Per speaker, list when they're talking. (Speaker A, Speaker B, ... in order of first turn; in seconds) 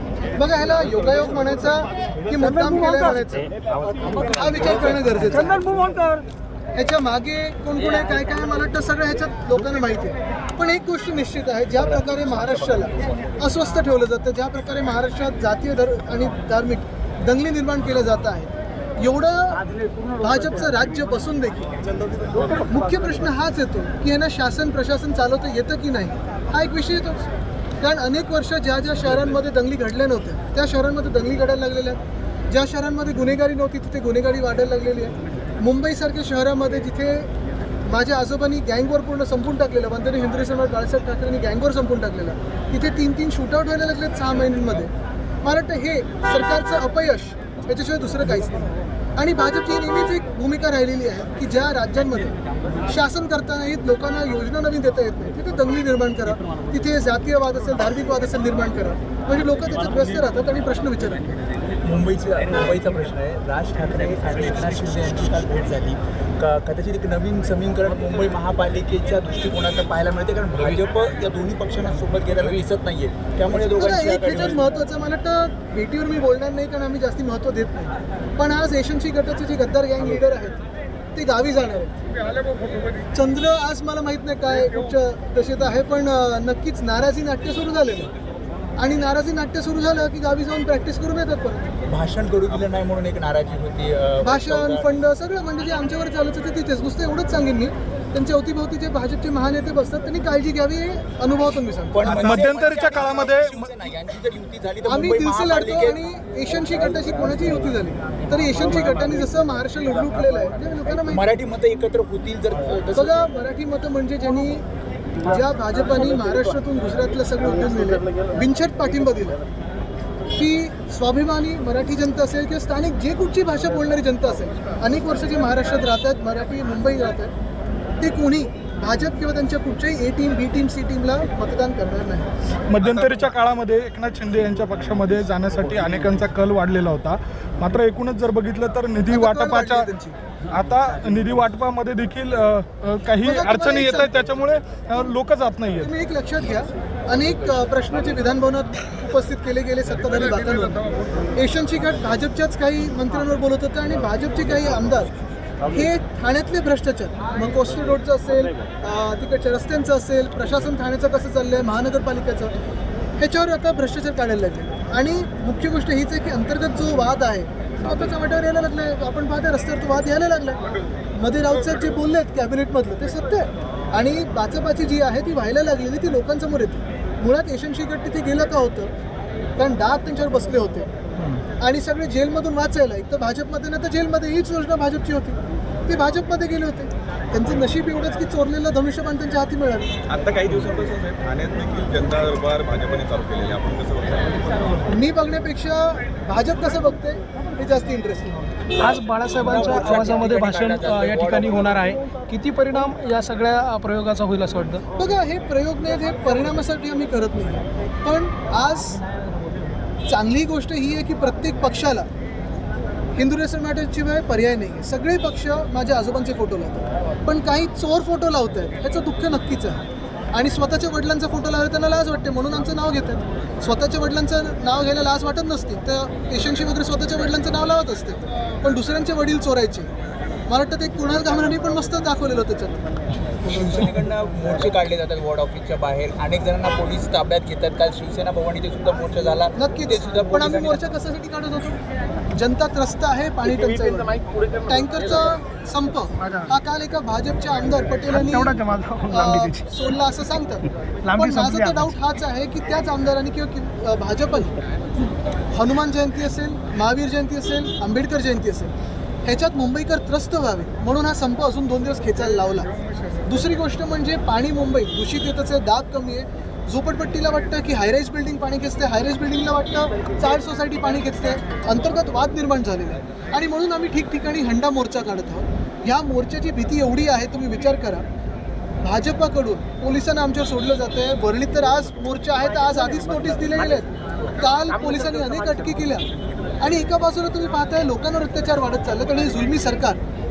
Speaker A: 0.4-3.5, 4.2-5.6, 6.7-19.6, 20.2-21.7, 22.6-27.3, 27.8-37.3, 37.9-44.9, 45.4-52.3, 52.9-61.4, 73.6-80.6, 81.1-82.0, 83.1-88.1, 88.8-91.7, 94.2-102.4, 104.8-111.3, 112.9-114.6, 115.2-119.4, 120.3-127.3, 128.0-132.3, 139.1-140.2, 143.2-144.1, 145.8-150.8, 151.3-155.1, 155.7-162.5, 163.2-170.6, 171.2-178.9, 179.6-180.9, 181.6-189.9, 194.9-198.5, 204.9-209.0, 210.1-212.1, 213.1-229.9, 230.5-232.8, 239.6-241.8, 242.3-254.5, 255.5-258.7, 259.2-262.7, 263.2-278.1, 278.8-286.1, 286.6-290.0
Speaker B: 2.6-3.1, 5.3-6.2, 198.8-204.8, 246.2-246.5, 248.1-249.7, 251.0-251.9
Speaker C: 11.8-12.2, 12.8-13.3, 61.8-74.6, 91.8-94.8, 101.9-106.0, 111.1-113.2, 199.4-201.7, 233.3-240.8
Speaker D: 21.8-22.5, 132.8-133.1, 190.1-194.7
Speaker E: 102.0-103.7, 132.7-139.9, 140.5-145.9